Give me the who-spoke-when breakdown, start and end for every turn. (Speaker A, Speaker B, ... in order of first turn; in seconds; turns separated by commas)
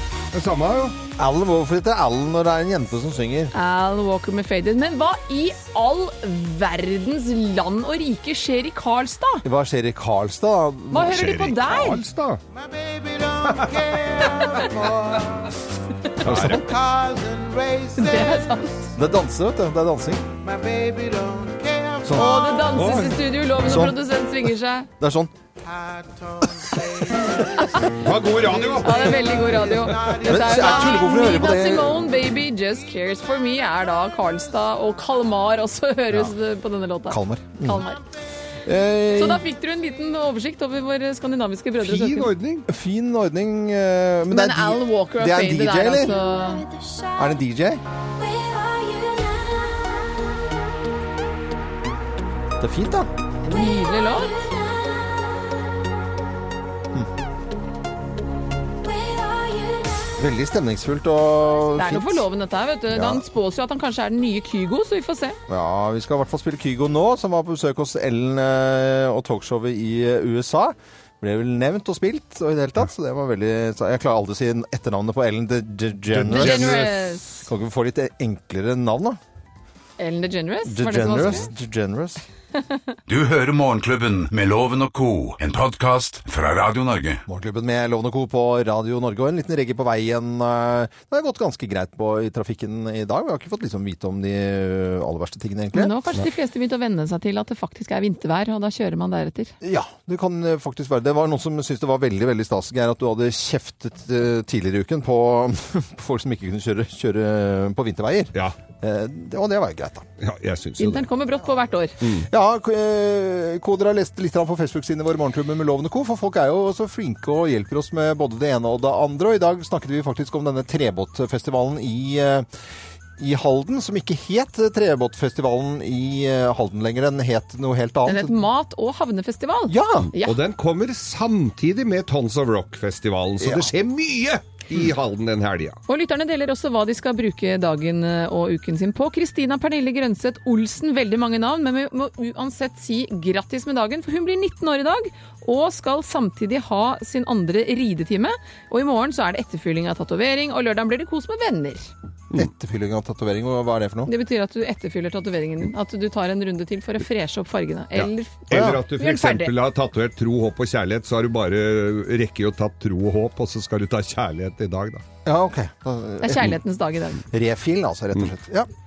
Speaker A: 0.3-1.0, Speaker B: 1.2-3.5, Speaker C: 3.5-9.4, Speaker B: 9.4-11.2, Speaker C: 10.9-12.0, Speaker A: 11.0-12.4, Speaker A: 13.4-14.7, Speaker B: 14.6-15.2, Speaker A: 16.2-16.9, Speaker B: 16.2-16.7, Speaker C: 17.9-18.8, Speaker B: 18.9-20.3, Speaker A: 22.1-23.2, Speaker C: 22.1-24.9, Speaker B: 23.6-24.0, Speaker B: 25.0-25.3, Speaker C: 27.4-27.9, Speaker A: 27.8-30.3, Speaker C: 28.7-38.0, Speaker B: 30.2-32.0, Speaker B: 37.1-37.9, Speaker B: 38.6-39.5, Speaker C: 39.1-42.3, Speaker A: 41.8-42.7, Speaker B: 42.7-46.2, Speaker C: 44.3-46.6, Speaker D: 46.0-47.5, Speaker B: 47.2-47.8, Speaker D: 48.0-50.4, Speaker B: 52.6-53.1, Speaker C: 53.4-54.4, Speaker D: 53.5-55.9, Speaker D: 58.8-60.1, Speaker B: 60.2-62.3, Speaker C: 61.8-65.4, Speaker B: 62.9-63.2, Speaker B: 65.5-76.9, Speaker A: 76.1-76.9, Speaker C: 76.3-77.5, Speaker B: 77.5-79.2, Speaker C: 80.0-81.5, Speaker B: 80.7-82.2, Speaker E: 83.1-87.2, Speaker B: 87.3-96.0, Speaker C: 95.7-99.5, Speaker B: 99.6-110.1, Speaker A: 110.2-111.1, Speaker C: 110.8-112.0, Speaker A: 112.0-112.3, Speaker B: 112.3-122.5, Speaker B: 123.2-128.4, Speaker C: 128.1-130.4, Speaker B: 129.7-130.1, Speaker A: 130.0-135.8, Speaker B: 133.4-133.7, Speaker C: 135.9-151.9, Speaker B: 152.3-154.1, Speaker C: 154.1-159.5, Speaker A: 157.9-165.0, Speaker B: 158.5-158.8, Speaker B: 165.2-166.6, Speaker C: 166.2-167.2, Speaker B: 167.3-168.7